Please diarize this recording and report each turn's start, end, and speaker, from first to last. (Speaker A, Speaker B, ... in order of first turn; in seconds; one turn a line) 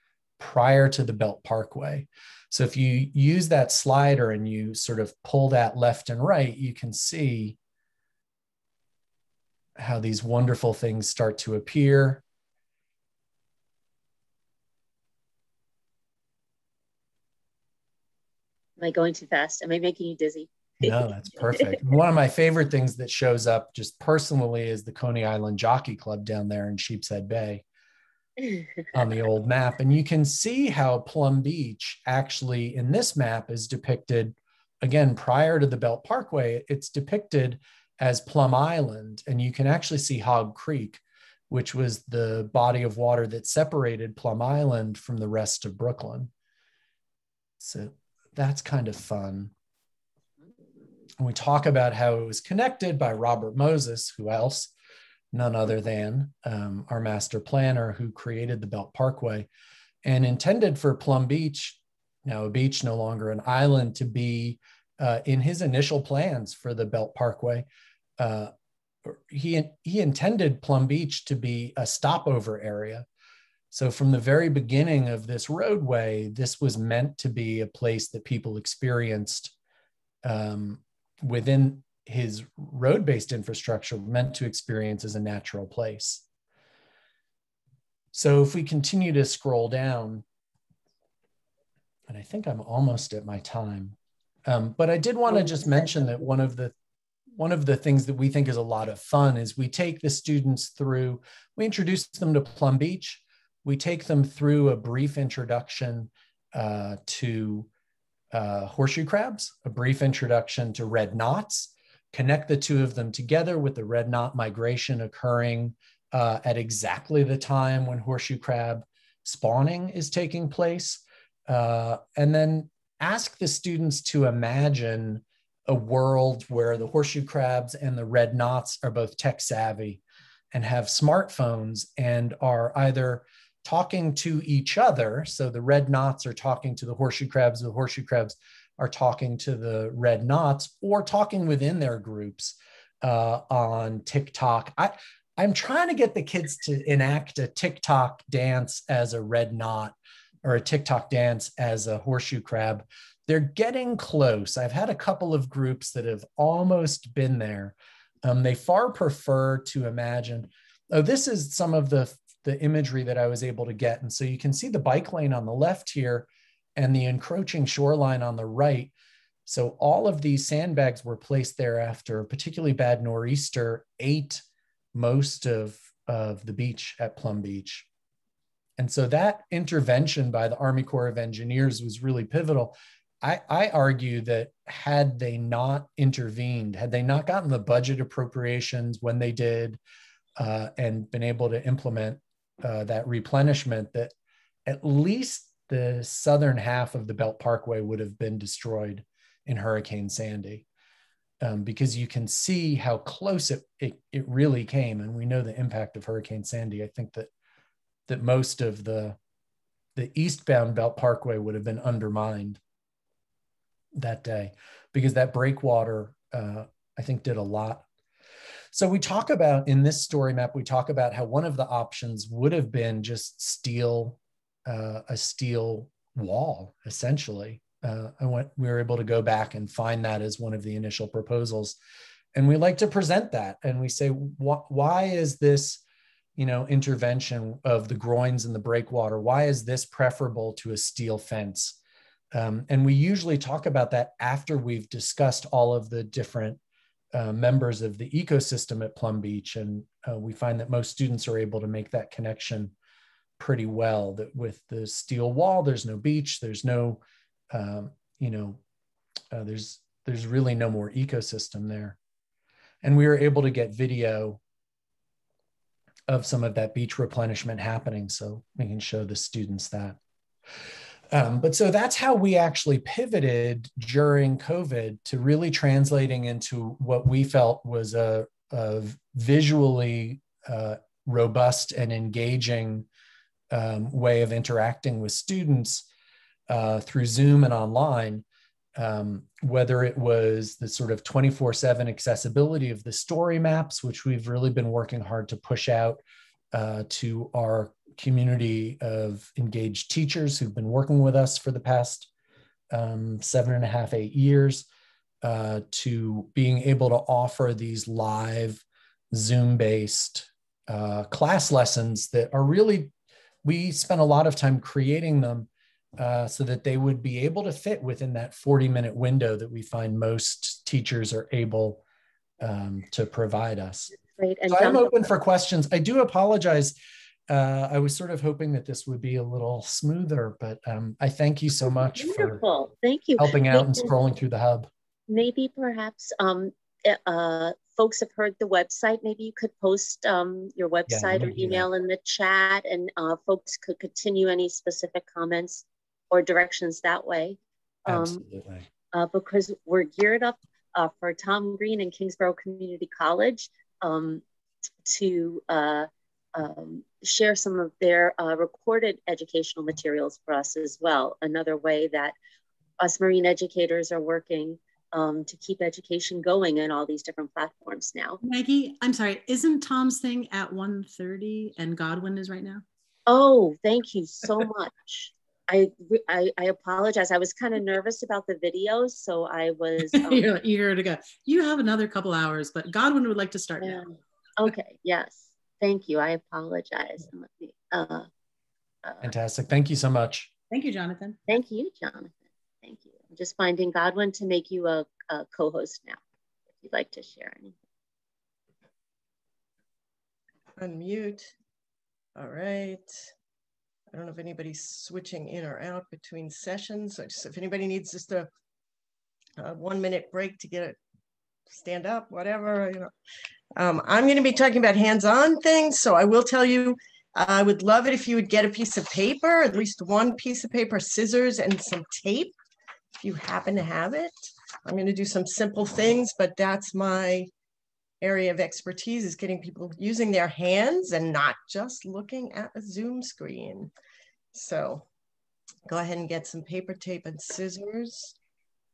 Speaker A: 0.4-7.6
Speaker A: 9.8-12.2
Speaker B: 18.8-21.8
Speaker A: 20.8-27.6
Speaker A: 28.9-46.3
Speaker A: 47.6-49.5
Speaker A: 51.2-54.7
Speaker A: 55.3-59.5
Speaker A: 60.0-67.7
Speaker A: 68.2-68.5
Speaker A: 69.1-73.1
Speaker A: 73.7-79.5
Speaker A: 80.2-86.2
Speaker A: 88.1-90.2
Speaker A: 92.1-96.7
Speaker A: 97.4-107.7
Speaker A: 108.3-168.9
Speaker A: 169.5-174.4
Speaker A: 174.9-177.9
Speaker A: 178.8-189.8
Speaker A: 190.4-194.1
Speaker A: 194.7-200.7
Speaker A: 201.4-207.3
Speaker A: 208.1-209.2
Speaker A: 209.9-212.6
Speaker A: 213.9-217.8
Speaker A: 218.7-231.8
Speaker A: 232.3-235.8
Speaker A: 236.4-241.8
Speaker A: 242.3-246.6
Speaker A: 247.1-252.7
Speaker A: 253.4-258.6
Speaker A: 259.3-262.0
Speaker A: 262.8-264.4
Speaker A: 266.1-270.0
Speaker A: 271.1-282.9
Speaker A: 283.5-285.9
Speaker A: 286.5-288.2
Speaker A: 288.8-302.1
Speaker A: 302.7-304.7
Speaker A: 305.2-312.9
Speaker A: 313.4-321.8
Speaker A: 322.4-324.0
Speaker B: 324.1-325.1
Speaker A: 324.5-326.8
Speaker A: 327.3-332.4
Speaker B: 331.9-333.9
Speaker A: 333.2-334.7
Speaker B: 335.1-348.2
Speaker A: 340.9-341.7
Speaker A: 347.9-348.7
Speaker B: 348.9-354.2
Speaker B: 354.9-362.1
Speaker B: 362.8-368.2
Speaker C: 368.2-372.6
Speaker B: 373.1-380.3
Speaker C: 379.9-383.8
Speaker B: 383.6-388.1
Speaker B: 388.9-389.1
Speaker A: 389.0-390.3
Speaker C: 390.5-391.2
Speaker B: 391.3-396.0
Speaker B: 396.6-397.6
Speaker D: 400.6-401.3
Speaker D: 402.2-403.1
Speaker D: 403.9-408.3
Speaker D: 409.4-410.8
Speaker D: 411.5-412.9
Speaker D: 413.6-422.3
Speaker D: 423.0-424.1
Speaker D: 424.6-427.3
Speaker D: 428.0-433.7
Speaker D: 434.3-434.9
Speaker D: 435.7-438.1